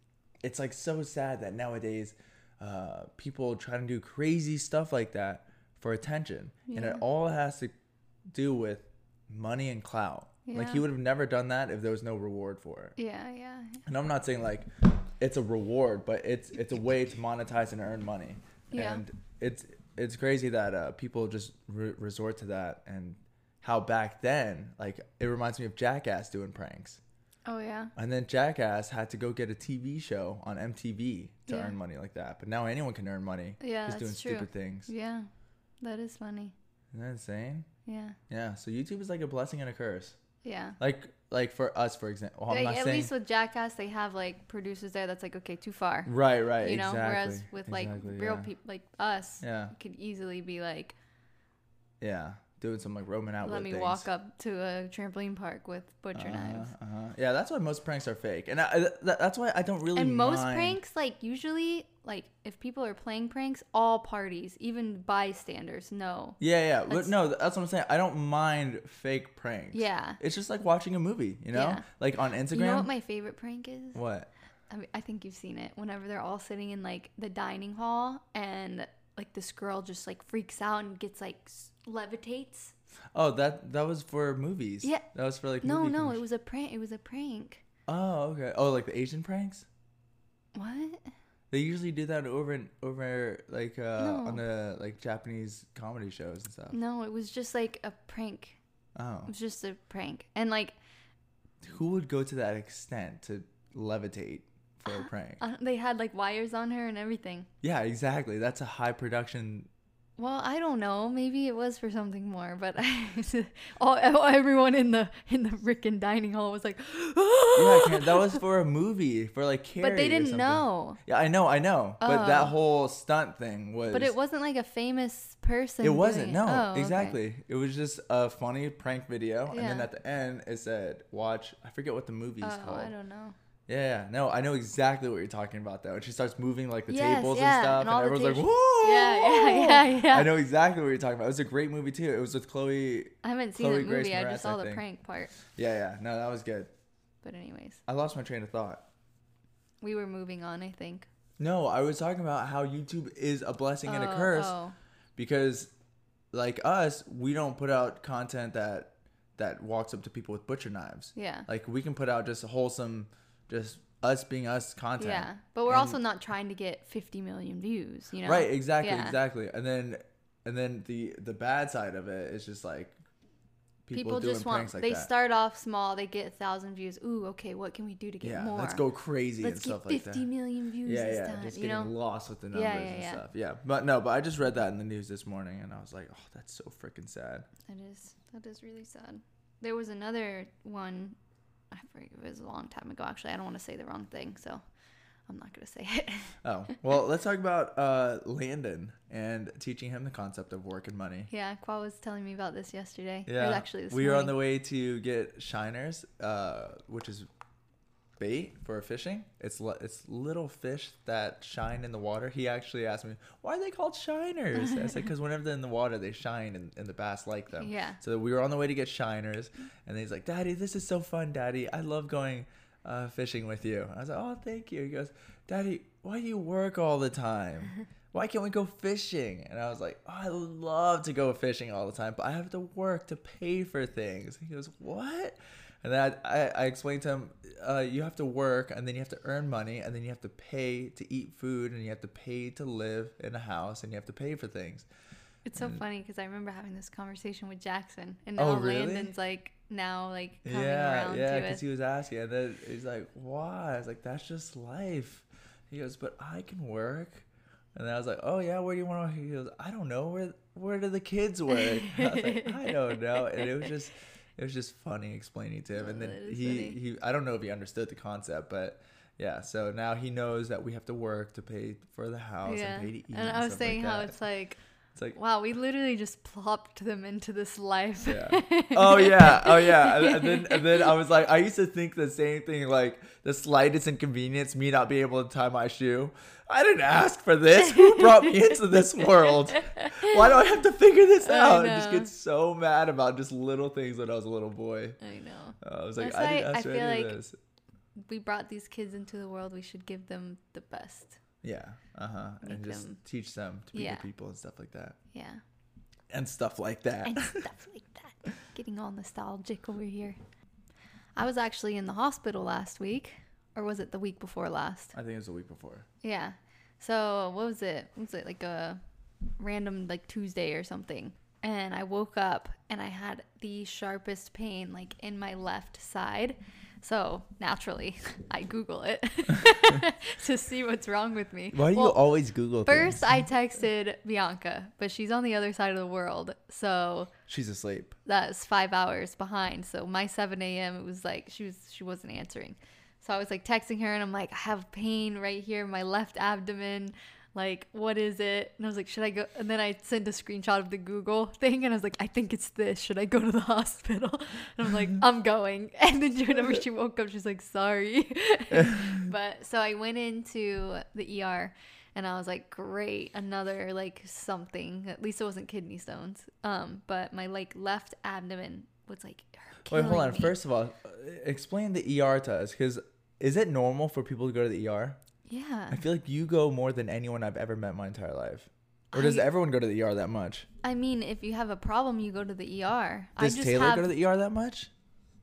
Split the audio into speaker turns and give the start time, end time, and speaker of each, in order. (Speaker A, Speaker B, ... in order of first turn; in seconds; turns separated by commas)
Speaker A: 0.4-7.7, Speaker B: 6.7-7.0, Speaker A: 8.3-13.0, Speaker B: 10.5-10.8, Speaker B: 13.0-13.8, Speaker A: 13.9-27.0, Speaker B: 18.7-19.0, Speaker B: 27.5-27.9, Speaker A: 28.0-34.9, Speaker B: 31.5-31.8, Speaker B: 33.6-35.3, Speaker B: 35.8-36.5, Speaker A: 36.9-37.7, Speaker B: 37.9-38.2, Speaker A: 38.3-40.2, Speaker B: 40.4-40.8, Speaker A: 40.8-43.1, Speaker B: 42.5-51.0, Speaker A: 46.1-48.5, Speaker A: 49.4-49.7, Speaker A: 52.0-54.1, Speaker B: 53.4-56.7, Speaker A: 56.1-60.8, Speaker B: 60.0-67.1, Speaker A: 66.4-72.9, Speaker B: 69.7-70.2, Speaker B: 71.5-71.9, Speaker B: 72.5-74.0, Speaker A: 73.9-74.3, Speaker B: 74.7-82.7, Speaker A: 83.2-86.2, Speaker B: 85.6-87.6, Speaker A: 87.9-89.7, Speaker B: 90.5-91.1, Speaker A: 91.5-96.8, Speaker B: 94.0-94.4, Speaker B: 96.7-98.6, Speaker A: 99.0-99.3, Speaker B: 99.3-100.8, Speaker A: 101.6-105.4, Speaker B: 104.9-107.5, Speaker A: 107.6-109.7, Speaker B: 110.2-118.4, Speaker A: 117.5-124.1, Speaker B: 119.8-121.0, Speaker B: 122.0-122.5, Speaker B: 123.9-127.2, Speaker A: 125.8-132.9, Speaker B: 129.5-129.9, Speaker B: 132.4-133.4, Speaker A: 133.7-144.8, Speaker B: 136.9-140.3, Speaker B: 143.2-145.3, Speaker A: 145.5-146.7, Speaker B: 147.2-147.8, Speaker A: 147.9-148.8, Speaker B: 149.8-151.1, Speaker A: 151.4-154.6, Speaker B: 153.8-154.8, Speaker A: 155.2-155.7, Speaker A: 156.3-166.0, Speaker B: 161.2-161.5, Speaker B: 165.0-169.2, Speaker A: 168.2-173.0, Speaker A: 173.9-175.1, Speaker B: 173.9-178.9, Speaker A: 178.2-180.3, Speaker B: 179.4-181.9, Speaker A: 180.8-187.5, Speaker B: 182.5-183.2, Speaker B: 187.7-191.2, Speaker B: 191.7-194.6, Speaker B: 195.3-196.4, Speaker A: 196.4-201.3, Speaker B: 201.3-204.4, Speaker A: 203.3-207.3, Speaker A: 208.2-244.9, Speaker B: 214.6-215.0, Speaker B: 217.6-218.0, Speaker B: 245.4-251.6, Speaker A: 248.4-249.1, Speaker A: 250.4-274.2, Speaker B: 261.5-263.7, Speaker B: 265.8-266.8, Speaker B: 272.4-274.6, Speaker B: 275.1-281.0, Speaker A: 278.0-295.0, Speaker B: 287.6-290.5, Speaker B: 291.2-292.1, Speaker B: 295.0-297.2, Speaker A: 295.6-297.4, Speaker B: 298.0-301.2, Speaker A: 301.4-305.0, Speaker B: 302.4-303.0, Speaker B: 303.7-304.1, Speaker B: 305.1-305.4, Speaker A: 306.1-307.5, Speaker B: 307.0-310.2, Speaker B: 311.2-314.9, Speaker A: 314.9-315.9, Speaker B: 316.0-318.8, Speaker B: 319.4-332.0, Speaker A: 331.5-333.2, Speaker B: 332.6-337.1, Speaker A: 337.3-338.0, Speaker B: 338.1-370.3, Speaker A: 369.7-375.0, Speaker B: 375.3-375.8, Speaker A: 375.7-380.5, Speaker B: 378.9-379.3, Speaker B: 380.6-383.9, Speaker A: 383.2-384.7